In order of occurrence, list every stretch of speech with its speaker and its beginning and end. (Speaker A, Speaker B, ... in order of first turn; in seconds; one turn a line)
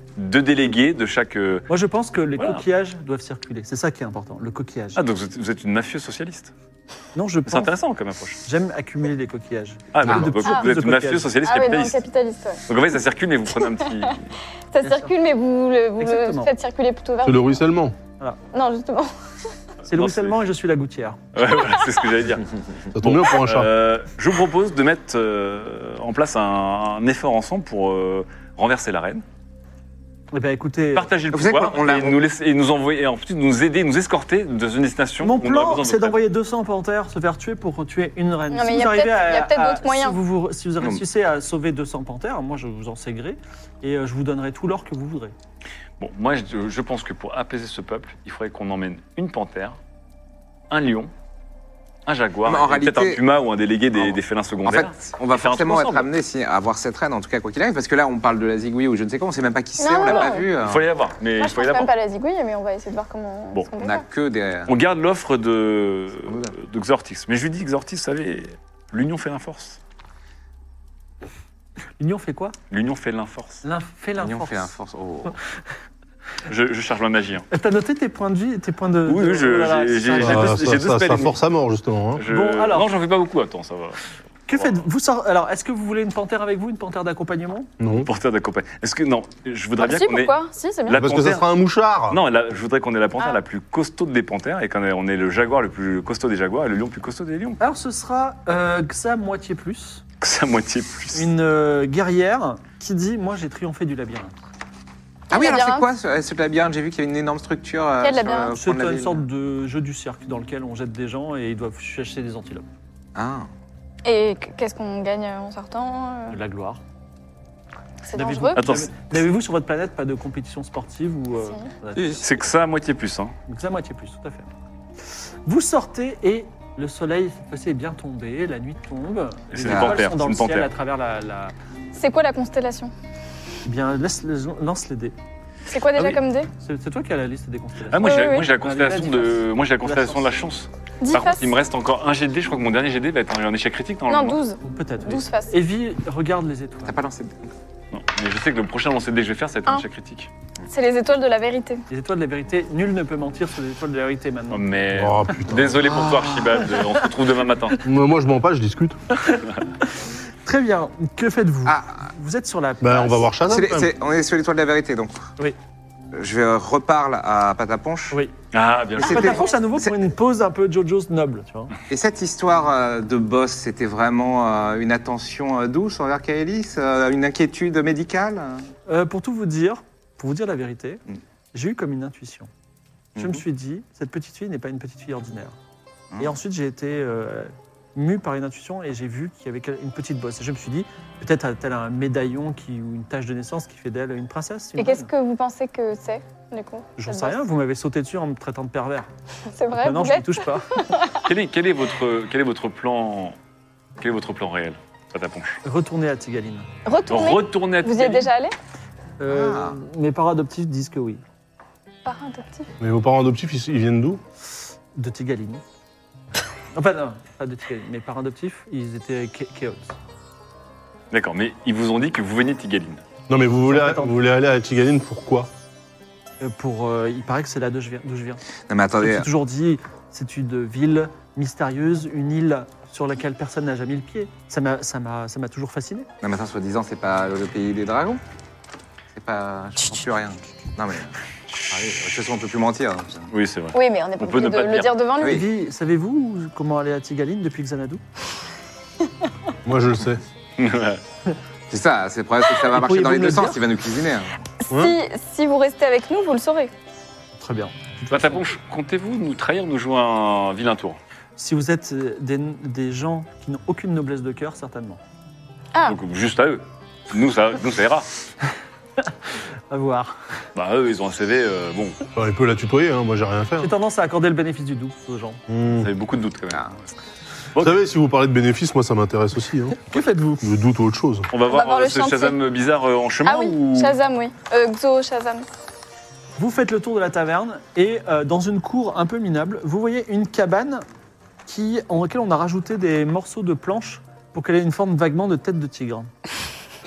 Speaker A: 0.2-1.7
Speaker B: 1.7-5.0
Speaker A: 2.4-2.6
Speaker A: 4.9-6.5
Speaker B: 7.1-7.7
Speaker A: 7.5-8.4
Speaker B: 8.4-11.3
Speaker A: 9.9-12.0
Speaker C: 11.4-12.6
Speaker A: 12.7-14.3
Speaker C: 14.7-17.5
Speaker B: 14.8-15.1
Speaker B: 16.0-16.6
Speaker D: 17.2-17.9
Speaker C: 18.5-19.1
Speaker B: 19.9-21.2
Speaker A: 19.9-20.4
Speaker A: 21.3-29.2
Speaker D: 22.9-23.7
Speaker B: 30.3-31.1
Speaker A: 30.9-36.2
Speaker E: 31.3-32.2
Speaker B: 35.2-45.3
Speaker C: 38.5-40.2
Speaker A: 46.0-49.8
Speaker A: 50.7-51.1
Speaker A: 52.0-56.1
Speaker E: 52.4-53.2
Speaker E: 54.0-60.8
Speaker C: 59.8-60.5
Speaker A: 60.1-61.9
Speaker C: 61.4-64.0
Speaker E: 63.8-64.7
Speaker A: 64.7-69.8
Speaker E: 66.3-66.5
Speaker B: 72.0-72.5
Speaker A: 72.7-73.6
Speaker B: 73.6-74.7
Speaker E: 74.2-75.3
Speaker A: 76.5-77.5
Speaker B: 77.5-80.6
Speaker A: 79.0-81.3
Speaker D: 80.2-82.2
Speaker A: 82.2-84.8
Speaker B: 82.2-82.9
Speaker B: 84.5-87.7
Speaker D: 87.8-88.1
Speaker A: 88.0-90.3
Speaker C: 89.8-91.0
Speaker A: 90.9-91.5
Speaker D: 90.9-92.2
Speaker A: 92.1-97.6
Speaker B: 97.6-100.0
Speaker A: 100.2-101.3
Speaker B: 101.1-104.3
Speaker E: 105.3-109.2
Speaker C: 105.3-105.9
Speaker C: 108.0-108.5
Speaker B: 108.5-112.7
Speaker E: 113.1-113.5
Speaker C: 114.0-116.4
Speaker B: 116.3-116.8
Speaker C: 118.0-118.6
Speaker B: 118.1-122.3
Speaker A: 118.5-119.2
Speaker C: 121.4-121.7
Speaker E: 122.0-122.2
Speaker A: 122.2-123.3
Speaker B: 123.5-124.5
Speaker B: 125.5-131.5
Speaker A: 129.5-130.7
Speaker E: 129.6-130.0
Speaker C: 131.9-132.9
Speaker B: 133.6-135.2
Speaker C: 135.7-136.5
Speaker B: 136.6-140.3
Speaker A: 137.9-144.4
Speaker C: 138.0-138.5
Speaker C: 141.0-141.5
Speaker C: 144.1-145.6
Speaker B: 144.6-147.0
Speaker E: 146.8-147.5
Speaker A: 147.9-150.3
Speaker C: 150.7-151.8
Speaker B: 151.9-154.6
Speaker A: 154.5-157.8
Speaker D: 154.9-155.8
Speaker E: 155.8-156.6
Speaker B: 156.6-157.0
Speaker D: 157.8-159.0
Speaker B: 159.1-163.3
Speaker E: 161.7-162.0
Speaker D: 162.8-163.9
Speaker E: 163.4-165.2
Speaker E: 166.1-168.2
Speaker A: 168.5-169.4
Speaker E: 169.0-169.9
Speaker B: 169.0-171.7
Speaker E: 171.9-178.7
Speaker B: 178.9-182.5
Speaker E: 183.2-183.4
Speaker B: 183.2-185.5
Speaker B: 186.2-195.1
Speaker C: 194.8-197.4
Speaker B: 197.0-199.1
Speaker C: 199.5-201.2
Speaker B: 199.7-200.7
Speaker A: 201.2-203.3
Speaker A: 204.0-205.6
Speaker B: 205.6-206.7
Speaker C: 206.8-208.5
Speaker A: 207.1-208.3
Speaker B: 209.2-211.2
Speaker E: 209.3-209.8
Speaker C: 212.0-212.7
Speaker D: 212.8-214.2
Speaker B: 214.9-215.6
Speaker B: 216.7-219.9
Speaker A: 221.1-223.0
Speaker D: 223.3-225.5
Speaker B: 223.7-224.2
Speaker B: 226.4-228.4
Speaker E: 228.7-229.3
Speaker B: 229.0-236.1
Speaker E: 236.2-238.2
Speaker E: 239.1-241.1
Speaker E: 241.7-243.3
Speaker A: 243.3-244.9
Speaker C: 243.7-245.4
Speaker B: 245.2-248.0
Speaker D: 249.6-250.2
Speaker A: 250.6-251.0
Speaker E: 251.7-254.3
Speaker B: 252.7-253.6
Speaker C: 254.6-256.7
Speaker B: 257.4-258.5
Speaker A: 258.1-261.0
Speaker B: 261.4-265.0
Speaker A: 265.9-268.1
Speaker B: 269.7-270.1
Speaker A: 270.5-272.0
Speaker D: 272.1-273.7
Speaker B: 273.6-275.4
Speaker D: 275.5-275.9
Speaker A: 275.8-276.8
Speaker D: 277.6-279.8
Speaker B: 279.7-280.4
Speaker D: 280.4-281.3
Speaker A: 281.3-283.9
Speaker C: 281.4-282.4
Speaker C: 283.2-285.4
Speaker B: 286.4-290.8
Speaker B: 291.4-296.1